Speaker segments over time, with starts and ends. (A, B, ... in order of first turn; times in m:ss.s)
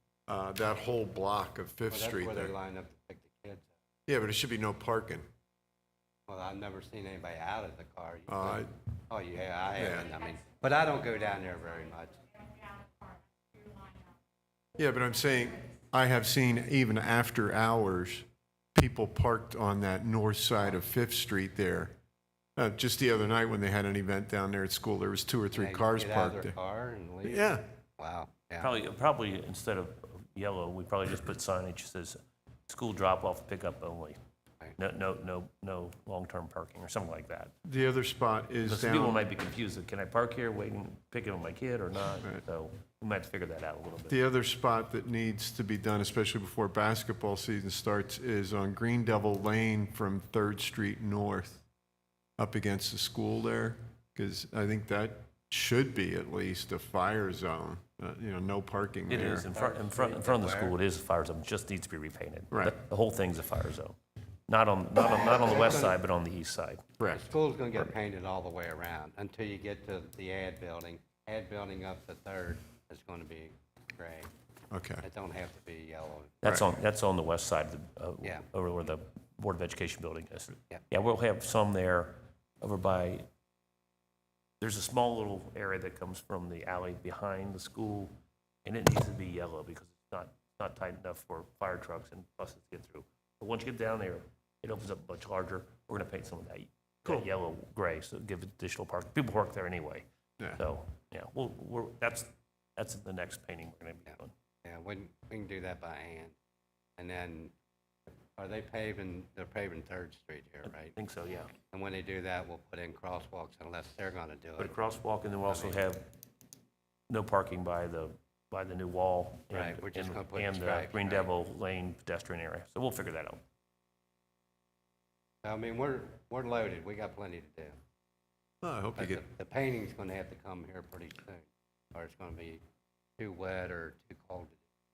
0:00.3-0:02.5 A
0:01.9-0:03.7 B
0:04.1-0:05.2 A
0:06.3-0:12.2 B
0:08.3-0:08.7 A
0:09.8-0:10.1 A
0:14.8-0:21.9 A
0:22.6-0:26.6 A
0:25.5-0:27.5 B
0:27.2-0:27.6 A
0:28.0-0:28.7 B
0:28.6-0:32.2 C
0:32.7-0:34.2 C
0:34.8-0:37.5 C
0:37.6-0:39.2 A
0:38.7-0:44.2 C
0:44.1-0:51.6 A
0:52.4-0:59.5 A
0:59.1-1:04.0 C
0:59.5-1:00.7 B
1:04.5-1:06.9 C
1:05.0-1:06.0 B
1:07.0-1:07.2 A
1:07.1-1:14.3 B
1:14.7-1:15.0 A
1:15.0-1:16.4 B
1:16.4-1:23.2 C
1:24.6-1:28.1 C
1:28.6-1:40.0 C
1:40.6-1:44.3 C
1:44.6-1:46.3 B
1:47.0-1:47.5 B
1:48.4-1:50.9 B
1:50.9-1:51.5 C
1:51.7-1:54.8 B
1:54.6-1:56.0 C
1:55.5-1:55.8 B
1:57.1-2:03.4 C
1:59.5-2:01.3 B
2:05.4-2:07.8 B
2:08.6-2:09.2 A
2:09.0-2:12.6 B
2:13.2-2:14.6 B